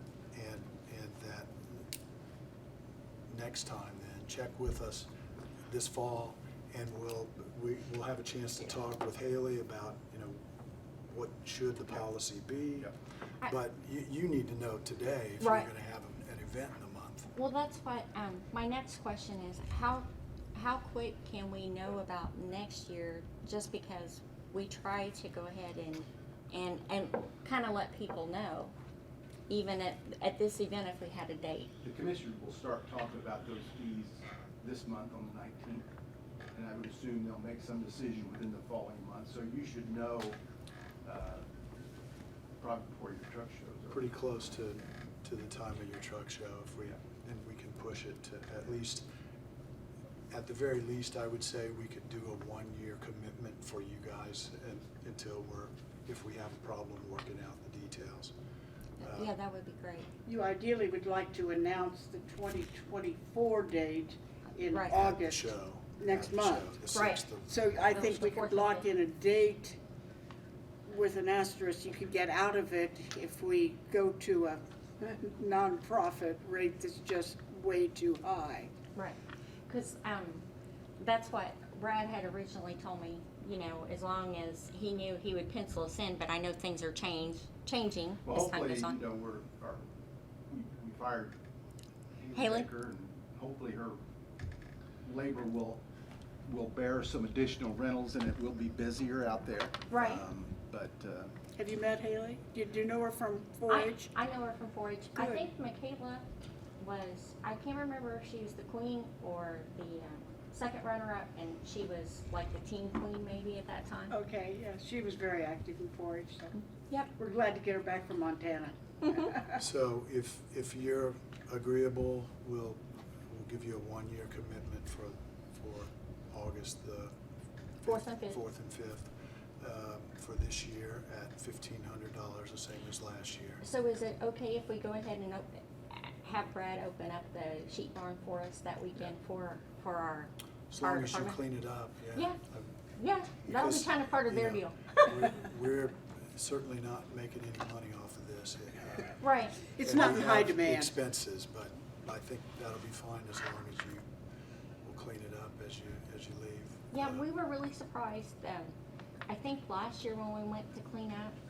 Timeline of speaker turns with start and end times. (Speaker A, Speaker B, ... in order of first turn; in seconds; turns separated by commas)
Speaker A: 0.3-1.9, Speaker A: 3.3-5.1, Speaker A: 5.7-10.4, Speaker A: 11.1-12.9, Speaker A: 13.4-17.3, Speaker B: 15.4-15.7, Speaker B: 17.4-28.7, Speaker B: 29.5-31.7, Speaker C: 31.8-35.9, Speaker C: 36.5-40.4, Speaker C: 41.0-41.5, Speaker C: 42.6-44.0, Speaker A: 43.9-49.1, Speaker A: 50.3-58.3, Speaker B: 59.0-60.1, Speaker A: 59.0-59.3, Speaker D: 60.2-66.8, Speaker B: 64.7-65.0, Speaker A: 64.9-67.9, Speaker B: 66.9-67.3, Speaker D: 67.4-69.8, Speaker B: 67.9-68.9, Speaker D: 70.9-78.7, Speaker B: 79.0-80.5, Speaker B: 81.0-89.0, Speaker C: 88.2-89.8, Speaker C: 90.5-91.3, Speaker C: 92.2-94.0, Speaker B: 92.3-92.7, Speaker C: 95.0-95.8, Speaker C: 96.5-101.3, Speaker B: 99.9-100.2, Speaker D: 101.6-104.1, Speaker B: 103.7-106.2, Speaker D: 105.2-105.5, Speaker B: 106.8-114.2, Speaker D: 114.1-116.6, Speaker D: 117.2-119.6, Speaker A: 119.5-127.1, Speaker A: 127.8-133.6, Speaker B: 127.8-128.4, Speaker B: 133.6-141.4, Speaker A: 140.7-142.8, Speaker B: 143.0-145.3, Speaker A: 143.4-149.2, Speaker B: 149.2-149.6, Speaker D: 149.7-150.9, Speaker A: 149.8-154.1, Speaker A: 154.8-157.2, Speaker B: 156.9-158.7, Speaker B: 159.3-161.3